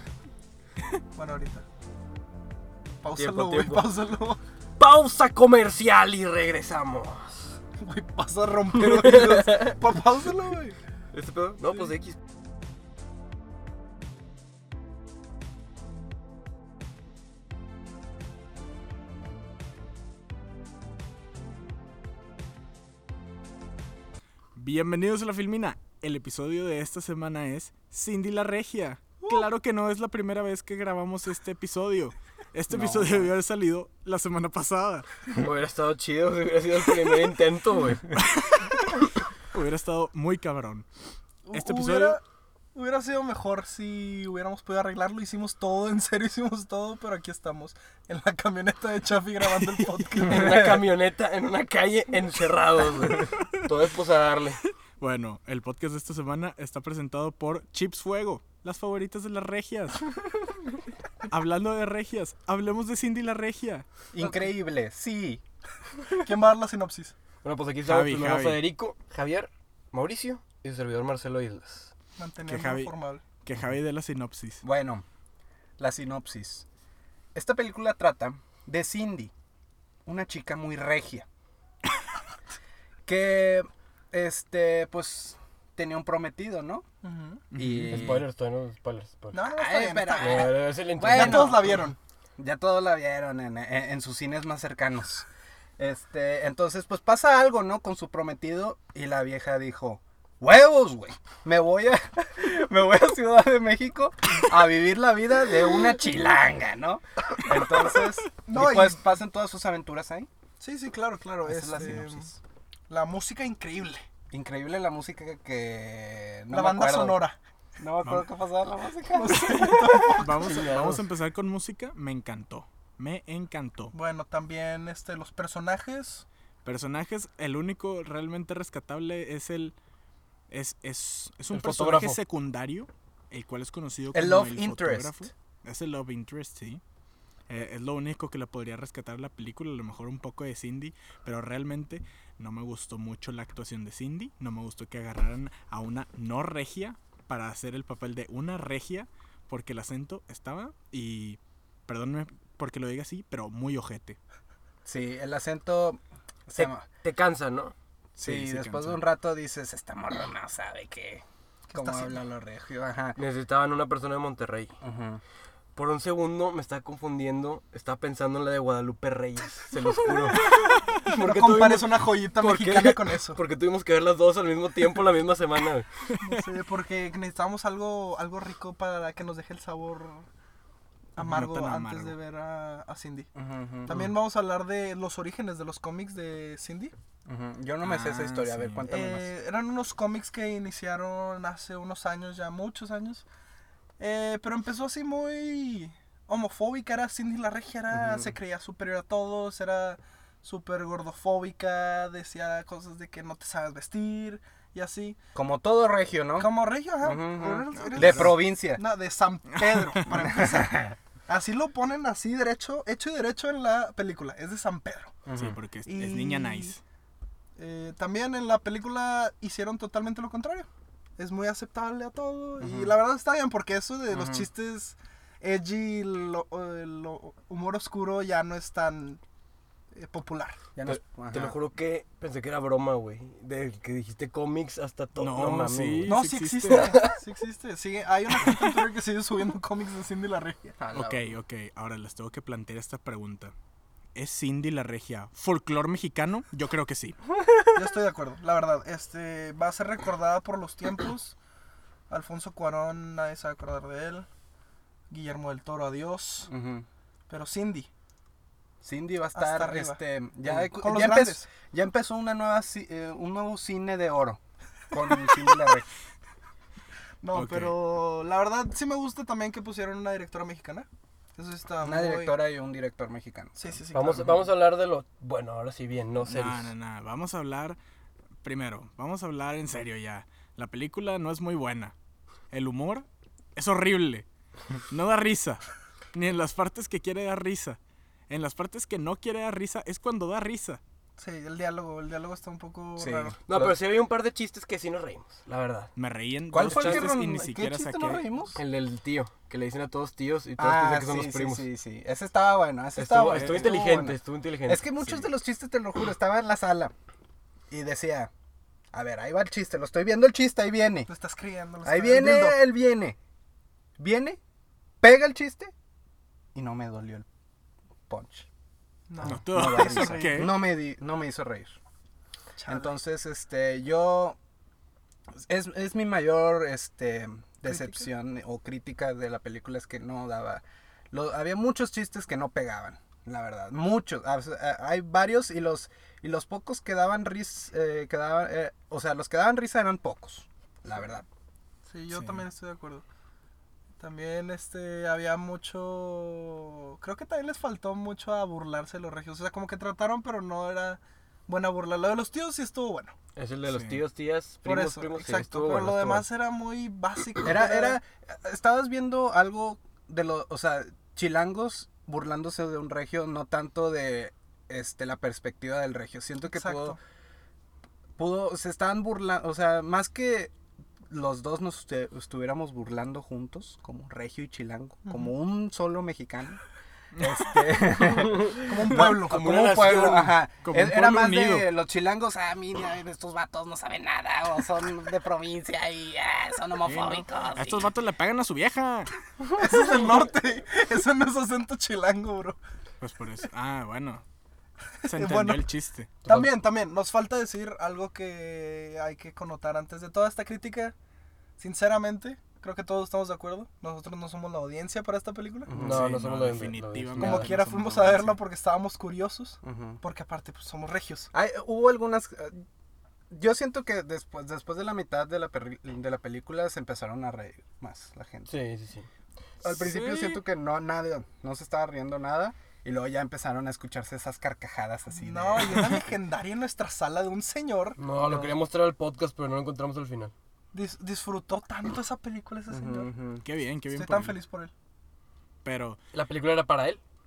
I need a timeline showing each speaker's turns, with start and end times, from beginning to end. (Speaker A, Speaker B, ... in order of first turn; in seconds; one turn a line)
Speaker A: 1.1-1.6
Speaker A: 3.0-4.4
Speaker B: 3.1-4.0
Speaker B: 4.8-7.6
Speaker A: 7.8-10.8
Speaker B: 9.0-9.7
Speaker B: 11.1-12.2
Speaker C: 24.6-35.1
Speaker D: 32.7-33.3
Speaker B: 35.3-38.1
Speaker C: 38.2-38.9
Speaker C: 39.5-40.9
Speaker A: 41.5-42.2
Speaker C: 41.5-42.2
Speaker A: 42.7-50.8
Speaker B: 50.2-54.6
Speaker D: 50.4-50.8
Speaker C: 55.0-60.0
Speaker C: 61.2-63.9
Speaker D: 64.1-65.4
Speaker A: 66.2-67.2
Speaker B: 67.4-71.9
Speaker C: 67.8-68.6
Speaker A: 72.2-73.2
Speaker C: 72.5-74.6
Speaker D: 74.6-75.0
Speaker D: 75.8-76.6
Speaker D: 77.3-79.3
Speaker D: 80.0-81.2
Speaker D: 83.0-86.8
Speaker A: 87.0-87.4
Speaker C: 87.5-88.2
Speaker D: 87.5-88.2
Speaker B: 87.9-89.5
Speaker A: 89.3-92.0
Speaker D: 89.5-91.9
Speaker B: 90.2-91.8
Speaker D: 92.4-95.2
Speaker D: 95.8-110.3
Speaker A: 108.4-109.0
Speaker A: 110.6-112.3
Speaker D: 111.5-112.4
Speaker A: 112.9-114.0
Speaker D: 114.3-117.2
Speaker A: 116.5-117.4
Speaker D: 117.8-120.2
Speaker C: 118.0-118.3
Speaker A: 119.1-120.5
Speaker C: 119.3-123.9
Speaker B: 120.4-121.0
Speaker A: 123.9-126.2
Speaker C: 126.6-129.7
Speaker C: 130.5-136.8
Speaker B: 131.5-132.2
Speaker D: 134.1-135.3
Speaker C: 137.5-154.2
Speaker D: 154.8-156.8
Speaker B: 156.6-157.7
Speaker D: 158.2-163.2
Speaker C: 158.2-159.0
Speaker A: 161.7-162.2
Speaker B: 163.2-164.7
Speaker D: 164.8-165.2
Speaker B: 165.7-175.9
Speaker A: 170.5-173.4
Speaker A: 176.2-180.3
Speaker A: 181.2-183.3
Speaker C: 181.2-182.1
Speaker D: 183.3-184.0
Speaker A: 183.8-186.9
Speaker D: 187.2-189.3
Speaker C: 187.8-189.0
Speaker A: 188.8-193.2
Speaker A: 194.0-205.2
Speaker D: 197.9-198.3
Speaker D: 205.3-208.8
Speaker A: 206.4-215.2
Speaker C: 207.8-208.2
Speaker C: 209.6-210.0
Speaker D: 210.1-210.9
Speaker D: 215.2-215.6
Speaker C: 215.3-216.8
Speaker A: 215.8-216.8
Speaker A: 217.6-220.7
Speaker A: 221.2-229.2
Speaker D: 222.6-222.9
Speaker D: 224.1-224.5
Speaker A: 229.9-230.6
Speaker D: 230.7-231.6
Speaker B: 230.8-236.2
Speaker C: 235.1-236.9
Speaker A: 236.1-240.8
Speaker B: 236.7-237.1
Speaker D: 240.8-241.3
Speaker C: 240.9-243.5
Speaker C: 244.1-247.2
Speaker A: 247.7-251.3
Speaker A: 252.1-254.3
Speaker A: 255.1-256.5
Speaker D: 256.5-256.9
Speaker A: 257.3-257.9
Speaker D: 258.8-264.4
Speaker A: 259.3-261.5
Speaker D: 264.9-265.9
Speaker A: 267.2-272.4
Speaker C: 267.3-267.8
Speaker D: 271.8-273.6
Speaker A: 273.5-274.4
Speaker B: 273.9-276.7
Speaker C: 276.2-277.8
Speaker C: 278.4-281.9
Speaker C: 282.5-284.2
Speaker C: 284.9-285.6
Speaker C: 286.1-290.8
Speaker A: 291.2-293.4
Speaker D: 293.0-293.8
Speaker B: 293.5-295.9
Speaker C: 295.9-298.2
Speaker D: 296.5-298.6
Speaker B: 296.6-297.1
Speaker B: 298.5-301.6
Speaker D: 300.6-306.9
Speaker B: 302.9-305.2
Speaker C: 303.3-303.7
Speaker D: 307.7-308.3
Speaker D: 308.9-311.1
Speaker A: 311.1-312.6
Speaker D: 311.8-313.2
Speaker D: 314.0-314.4
Speaker D: 315.0-315.7
Speaker D: 316.5-317.2
Speaker D: 318.1-318.5
Speaker A: 319.1-320.5
Speaker D: 319.2-321.8
Speaker C: 319.2-320.6
Speaker A: 322.6-322.9
Speaker D: 322.7-324.4
Speaker D: 325.4-341.2
Speaker A: 327.6-328.1
Speaker A: 341.9-343.0
Speaker C: 342.1-342.4
Speaker A: 344.0-353.1
Speaker B: 353.4-356.2
Speaker C: 353.7-354.0
Speaker A: 354.6-358.0
Speaker D: 357.4-367.0
Speaker A: 366.5-367.0
Speaker D: 368.2-370.5
Speaker D: 371.1-376.6
Speaker A: 375.1-375.3
Speaker D: 377.2-387.9
Speaker B: 378.1-380.4
Speaker A: 378.5-379.7
Speaker C: 380.6-381.7
Speaker C: 386.8-389.1
Speaker A: 389.5-392.6
Speaker C: 393.0-394.2
Speaker A: 395.0-395.6
Speaker C: 395.0-396.1
Speaker A: 396.2-400.9
Speaker A: 401.6-405.8
Speaker D: 405.7-406.1
Speaker B: 405.7-407.5
Speaker C: 405.7-408.4
Speaker A: 407.2-411.3
Speaker D: 409.6-410.0
Speaker D: 411.3-412.6
Speaker D: 413.3-418.5
Speaker B: 418.5-419.1
Speaker D: 419.6-426.0
Speaker A: 425.1-428.0
Speaker B: 428.0-430.3
Speaker D: 428.2-428.5
Speaker A: 430.7-433.1
Speaker D: 432.7-433.4
Speaker C: 433.4-434.4
Speaker A: 433.9-434.7
Speaker C: 435.6-436.0
Speaker B: 436.1-437.0